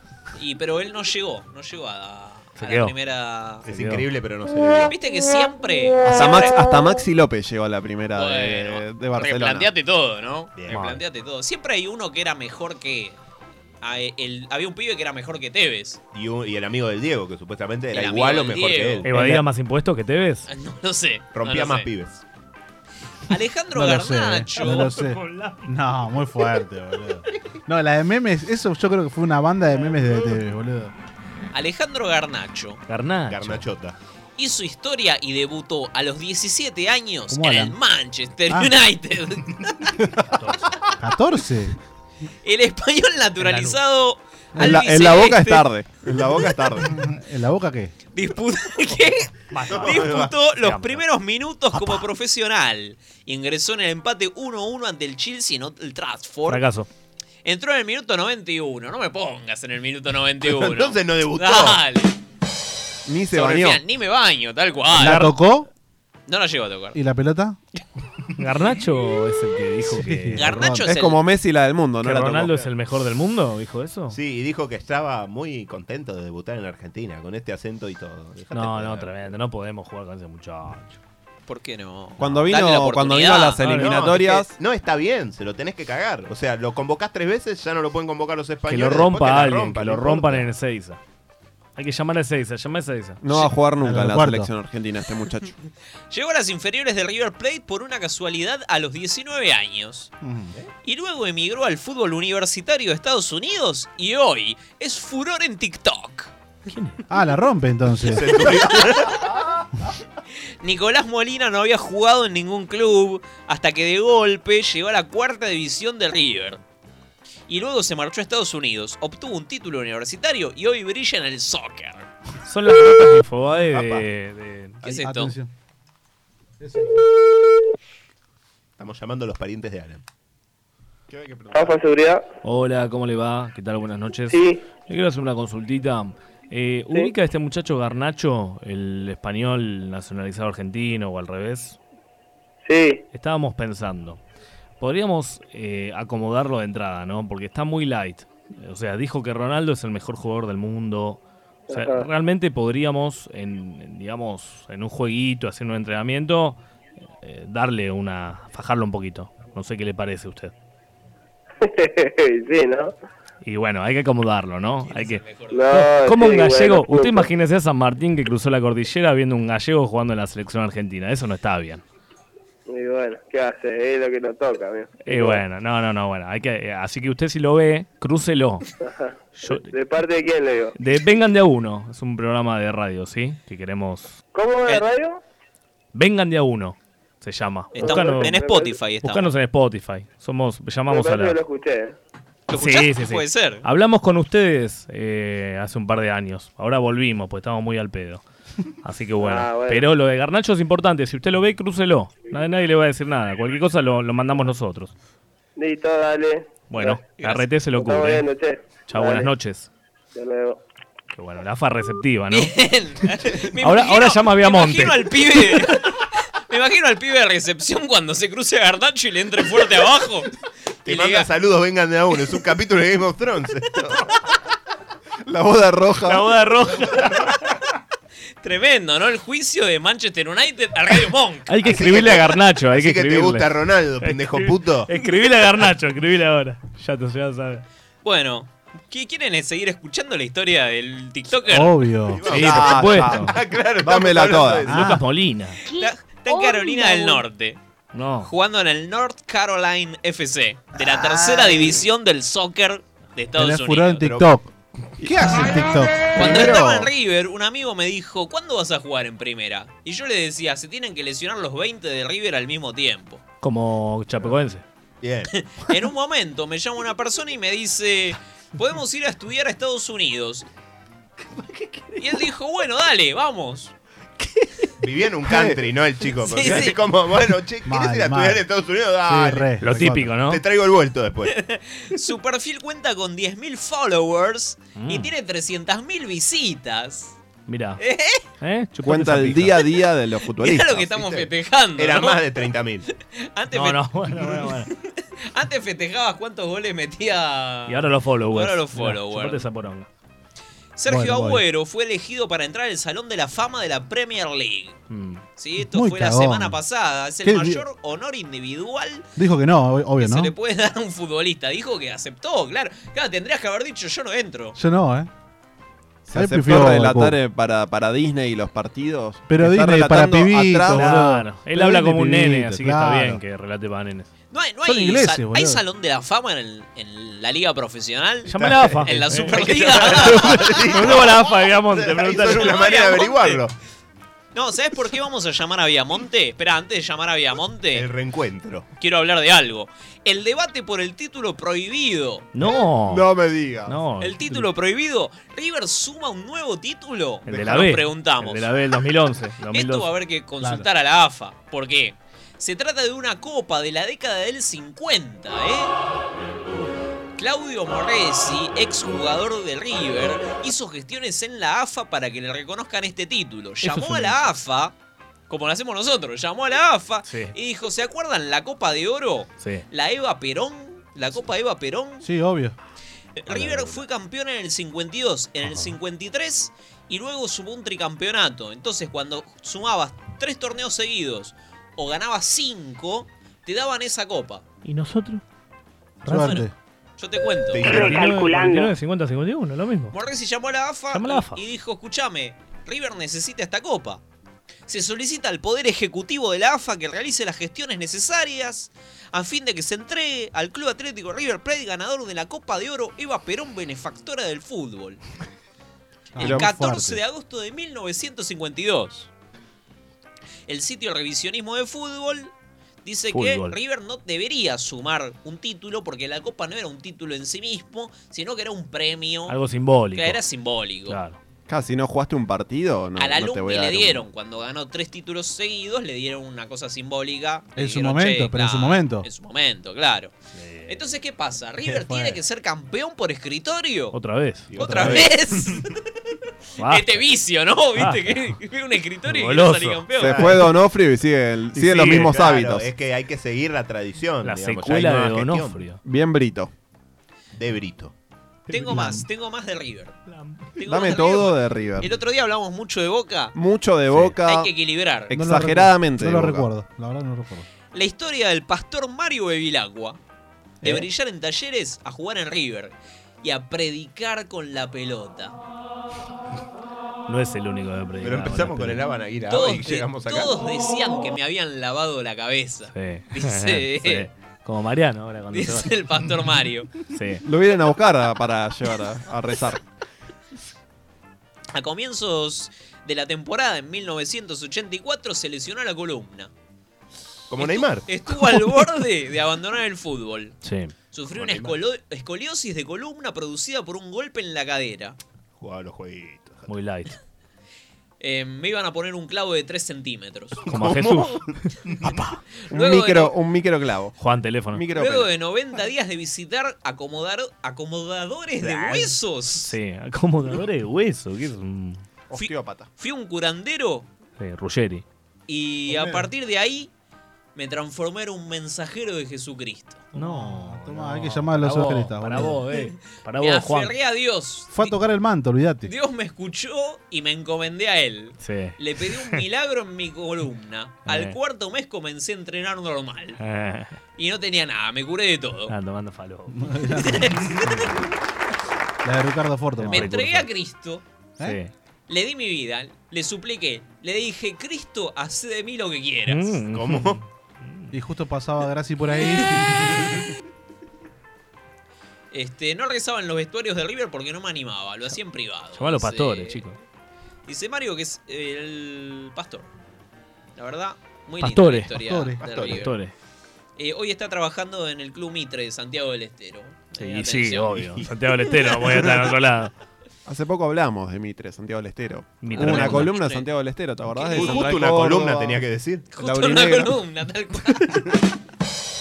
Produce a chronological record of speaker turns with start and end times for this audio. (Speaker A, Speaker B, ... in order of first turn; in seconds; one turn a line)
Speaker A: 0.3-3.7
Speaker B: 2.6-2.9
Speaker C: 3.6-4.9
Speaker B: 3.7-4.0
Speaker A: 4.9-6.5
Speaker D: 6.0-9.7
Speaker A: 8.2-13.2
Speaker C: 10.6-10.8
Speaker B: 10.7-11.0
Speaker A: 13.8-16.0
Speaker C: 16.1-19.1
Speaker A: 17.9-19.1
Speaker B: 19.0-20.5
Speaker E: 19.1-19.4
Speaker A: 20.5-21.9
Speaker C: 21.3-22.2
Speaker A: 23.3-24.9
Speaker E: 23.7-30.9
Speaker B: 24.7-25.7
Speaker A: 31.5-32.8
Speaker B: 32.9-33.6
Speaker C: 33.3-34.0
Speaker A: 34.4-39.7
Speaker E: 37.3-37.8
Speaker B: 40.3-40.8
Speaker E: 41.0-41.8
Speaker A: 42.4-45.7
Speaker B: 43.4-43.8
Speaker E: 44.5-44.8
Speaker D: 44.6-46.9
Speaker E: 46.8-47.9
Speaker A: 48.1-56.6
Speaker B: 49.5-51.0
Speaker C: 49.7-50.3
Speaker B: 56.5-56.9
Speaker A: 57.4-62.2
Speaker C: 60.4-61.8
Speaker D: 63.0-63.8
Speaker A: 63.3-65.3
Speaker E: 64.9-65.7
Speaker B: 65.0-65.3
Speaker A: 66.3-67.0
Speaker E: 66.9-67.6
Speaker B: 68.4-70.5
Speaker E: 69.8-70.9
Speaker A: 70.3-71.2
Speaker D: 70.8-72.5
Speaker B: 72.0-74.2
Speaker C: 74.1-79.3
Speaker B: 78.5-81.0
Speaker A: 81.5-84.4
Speaker D: 82.2-84.5
Speaker B: 83.6-84.0
Speaker C: 83.7-90.5
Speaker B: 88.7-91.0
Speaker B: 91.8-93.2
Speaker D: 93.2-95.5
Speaker E: 93.8-94.5
Speaker A: 96.1-100.1
Speaker E: 100.2-100.5
Speaker A: 100.8-106.3
Speaker B: 106.7-107.0
Speaker E: 107.1-108.5
Speaker C: 108.0-109.6
Speaker A: 108.7-109.2
Speaker A: 110.6-116.6
Speaker A: 117.5-122.1
Speaker B: 122.4-124.8
Speaker C: 123.7-124.0
Speaker A: 124.8-125.3
Speaker E: 124.8-125.5
Speaker E: 126.6-126.9
Speaker C: 128.8-130.0
Speaker F: 131.5-132.2
Speaker B: 132.4-141.8
Speaker F: 134.3-134.6
Speaker F: 142.7-143.0
Speaker B: 143.1-144.2
Speaker B: 144.8-156.6
Speaker F: 151.7-152.0
Speaker B: 157.2-160.5
Speaker F: 161.6-162.9
Speaker B: 163.4-171.8
Speaker A: 164.8-165.7
Speaker F: 165.5-167.3
Speaker F: 172.7-175.4
Speaker B: 175.0-178.6
Speaker F: 178.8-180.7
Speaker B: 179.4-179.7
Speaker B: 180.8-184.2
Speaker F: 184.3-185.2
Speaker B: 185.9-188.4
Speaker F: 187.8-188.7
Speaker A: 187.8-189.3
Speaker B: 189.0-191.4
Speaker F: 190.9-191.9
Speaker A: 192.5-193.6
Speaker B: 192.5-198.2
Speaker B: 198.8-204.9
Speaker F: 199.2-199.8
Speaker F: 205.6-207.0
Speaker B: 206.7-208.2
Speaker F: 207.7-209.3
Speaker B: 208.9-209.7
Speaker F: 210.2-210.6
Speaker B: 211.1-212.5
Speaker A: 212.3-215.8
Speaker B: 213.6-215.1
Speaker A: 216.5-220.3
Speaker C: 220.8-224.0
Speaker A: 220.8-221.3
Speaker D: 225.2-226.3
Speaker B: 226.1-227.4
Speaker A: 228.4-231.7
Speaker B: 231.5-237.6
Speaker C: 231.7-234.9
Speaker A: 238.0-241.7
Speaker E: 241.5-242.8
Speaker C: 242.1-244.8
Speaker D: 242.3-244.8
Speaker B: 242.3-243.3
Speaker E: 244.7-245.0
Speaker B: 244.7-245.6
Speaker A: 245.7-247.6
Speaker B: 247.9-248.3
Speaker A: 248.2-254.0
Speaker E: 253.3-254.5
Speaker E: 255.0-256.9
Speaker A: 256.1-263.2
Speaker B: 263.4-264.6
Speaker C: 265.0-265.3
Speaker A: 265.3-270.4
Speaker B: 271.5-272.0
Speaker A: 272.0-273.7
Speaker B: 274.2-274.5
Speaker C: 274.8-279.6
Speaker A: 276.2-276.8
Speaker E: 277.6-278.4
Speaker E: 279.0-280.2
Speaker B: 279.6-280.4
Speaker C: 280.2-281.3
Speaker A: 281.3-287.2
Speaker B: 284.8-285.1
Speaker B: 287.5-287.8
Speaker A: 287.8-288.2
Speaker B: 288.4-289.6
Speaker D: 288.8-290.8
Speaker A: 290.4-292.2
Speaker C: 290.7-292.9
Speaker A: 293.2-294.5
Speaker B: 293.5-294.7
Speaker A: 295.3-299.4
Speaker B: 297.7-299.9
Speaker A: 300.8-304.8
Speaker E: 300.9-301.4
Speaker B: 304.9-305.2
Speaker A: 305.4-309.1
Speaker E: 305.6-306.6
Speaker E: 307.2-307.6
Speaker E: 309.1-310.3
Speaker A: 310.0-314.6
Speaker E: 314.6-315.1
Speaker D: 316.0-320.9
Speaker E: 316.1-317.2
Speaker E: 319.3-323.2
Speaker B: 320.7-324.1
Speaker A: 324.3-331.1
Speaker E: 324.6-325.6
Speaker B: 328.2-332.6
Speaker C: 328.4-333.5
Speaker A: 332.3-333.4
Speaker A: 334.3-337.9
Speaker C: 337.7-338.7
Speaker A: 338.8-342.3
Speaker B: 342.3-343.1
Speaker D: 342.4-343.8
Speaker B: 343.6-344.5
Speaker A: 344.0-348.5
Speaker B: 347.2-349.9
Speaker A: 349.5-355.7
Speaker E: 350.4-350.7
Speaker A: 357.1-364.7
Speaker B: 363.6-364.3
Speaker A: 365.3-372.0
Speaker B: 367.1-367.3
Speaker E: 372.0-372.6
Speaker A: 373.2-384.4
Speaker B: 373.3-373.8
Speaker B: 375.4-375.8
Speaker B: 384.6-385.2
Speaker E: 386.0-386.5
Speaker B: 386.1-386.4
Speaker A: 386.1-386.4
Speaker A: 387.0-387.9
Speaker C: 387.5-388.1
Speaker B: 387.6-389.9
Speaker F: 387.8-388.6
Speaker A: 389.9-394.0
Speaker B: 390.9-391.4
Speaker A: 394.7-405.0
Speaker E: 406.1-407.0
Speaker D: 406.2-406.5
Speaker A: 406.2-409.1
Speaker A: 410.5-412.3
Speaker A: 412.8-419.3
Speaker B: 413.1-413.6
Speaker B: 419.3-420.2
Speaker A: 419.9-421.0
Speaker B: 420.9-421.2
Speaker D: 421.5-424.1
Speaker A: 423.0-430.1
Speaker E: 427.6-429.1
Speaker B: 430.3-430.8
Speaker A: 430.7-433.9
Speaker E: 431.7-432.2
Speaker B: 433.9-435.1
Speaker C: 434.5-435.6
Speaker A: 434.6-435.6
Speaker B: 436.6-437.1
Speaker A: 436.7-440.3
Speaker B: 437.8-438.4
Speaker B: 439.1-439.8
Speaker D: 440.0-442.7
Speaker C: 440.0-440.4
Speaker C: 441.6-445.6
Speaker B: 444.2-445.8
Speaker D: 445.8-446.5
Speaker C: 447.3-447.9
Speaker A: 448.5-450.0
Speaker E: 448.5-449.1
Speaker B: 450.1-450.4
Speaker A: 450.6-453.3
Speaker D: 450.7-451.9
Speaker D: 453.3-454.5
Speaker B: 453.9-454.1
Speaker A: 454.2-455.1
Speaker D: 455.1-456.5
Speaker E: 455.1-457.5
Speaker A: 457.7-460.0
Speaker A: 460.6-465.4
Speaker B: 467.1-468.8
Speaker C: 468.0-470.4
Speaker A: 469.3-474.1
Speaker B: 472.7-475.9
Speaker A: 475.3-476.7
Speaker B: 476.9-477.2
Speaker D: 477.2-479.6
Speaker A: 481.5-486.3
Speaker C: 487.3-487.9
Speaker A: 487.4-490.4
Speaker B: 488.2-488.6
Speaker B: 490.4-490.7
Speaker A: 490.9-495.0
Speaker C: 491.1-491.5
Speaker C: 495.4-496.5
Speaker B: 496.5-496.9
Speaker A: 498.0-500.5
Speaker B: 500.4-502.1
Speaker C: 500.5-502.1
Speaker D: 502.5-503.9
Speaker A: 502.5-503.1
Speaker B: 504.0-504.6
Speaker D: 504.5-505.1
Speaker A: 504.7-509.5
Speaker B: 508.4-511.8
Speaker D: 512.1-512.7
Speaker A: 512.1-513.9
Speaker B: 514.2-514.8
Speaker A: 515.3-516.7
Speaker E: 515.7-516.0
Speaker A: 517.3-519.8
Speaker E: 519.9-522.4
Speaker B: 519.9-523.7
Speaker A: 523.1-524.8
Speaker E: 524.5-525.7
Speaker A: 525.6-533.2
Speaker B: 528.2-529.2
Speaker B: 530.9-531.2
Speaker B: 533.2-533.8
Speaker A: 534.0-535.5
Speaker B: 535.5-536.4
Speaker E: 536.3-537.8
Speaker A: 536.8-537.4
Speaker E: 538.8-540.0
Speaker B: 539.6-540.2
Speaker A: 539.7-540.8
Speaker B: 541.2-541.5
Speaker A: 541.9-546.4
Speaker B: 546.1-547.7
Speaker C: 546.5-547.0
Speaker E: 547.7-549.9
Speaker A: 552.1-556.4
Speaker B: 555.5-556.6
Speaker A: 557.2-559.5
Speaker A: 560.4-562.8
Speaker B: 561.2-561.7
Speaker E: 561.8-562.2
Speaker C: 562.2-562.6
Speaker B: 562.5-562.9
Speaker A: 563.6-567.7
Speaker B: 566.8-569.5
Speaker D: 570.0-575.4
Speaker B: 572.2-573.0
Speaker A: 572.3-573.2
Speaker A: 573.9-574.5
Speaker C: 574.1-575.9
Speaker A: 575.9-577.8
Speaker D: 576.0-576.8